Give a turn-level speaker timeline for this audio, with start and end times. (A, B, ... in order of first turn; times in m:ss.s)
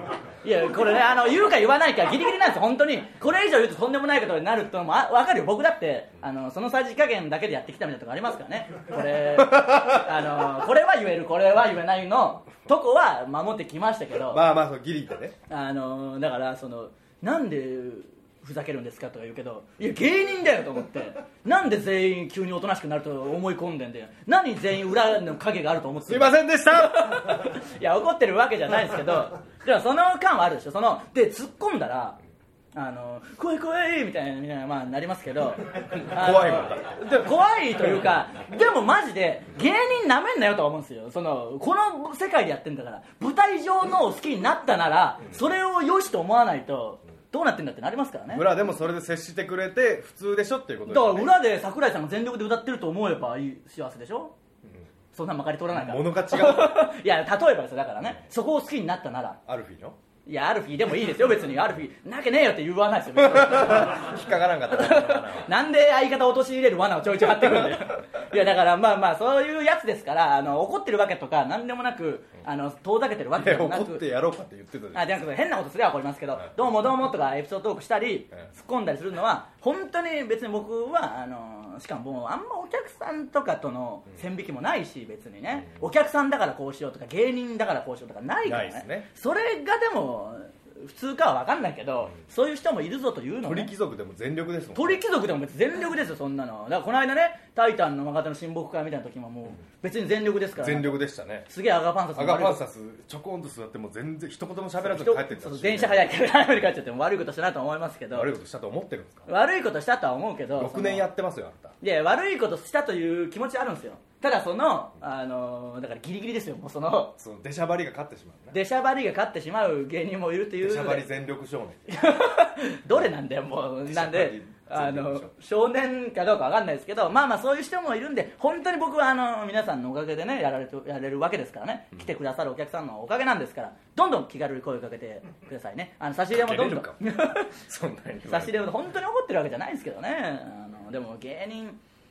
0:00.4-0:14.4 A
0:09.4-0:10.2 B
0:14.3-0:15.4 B
0:15.5-0:32.2 A
0:26.0-0:27.6 B
0:32.7-0:48.5 A
0:36.0-0:37.3 B
0:48.3-0:51.3 B
0:50.9-0:54.3 A
0:55.1-0:59.4 A
0:55.7-0:56.9 B
0:59.5-1:00.0 B
1:00.2-1:14.0 A
1:03.2-1:05.5 B
1:13.4-1:15.0 B
1:14.9-1:33.7 A
1:28.4-1:29.1 B
1:33.4-1:35.0 B
1:34.8-1:40.9 A
1:40.6-1:41.5 B
1:41.5-1:42.6 A
1:42.1-1:46.0 B
1:44.8-1:48.3 A
1:48.1-1:49.3 B
1:49.3-1:51.1 A
1:50.5-1:51.8 B
1:51.8-1:57.2 A
1:57.2-1:58.6 B
1:58.5-2:01.0 A
2:00.6-2:01.9 B
2:01.9-2:17.6 A
2:03.9-2:05.3 B
2:16.3-2:18.7 B
2:18.2-2:21.8 A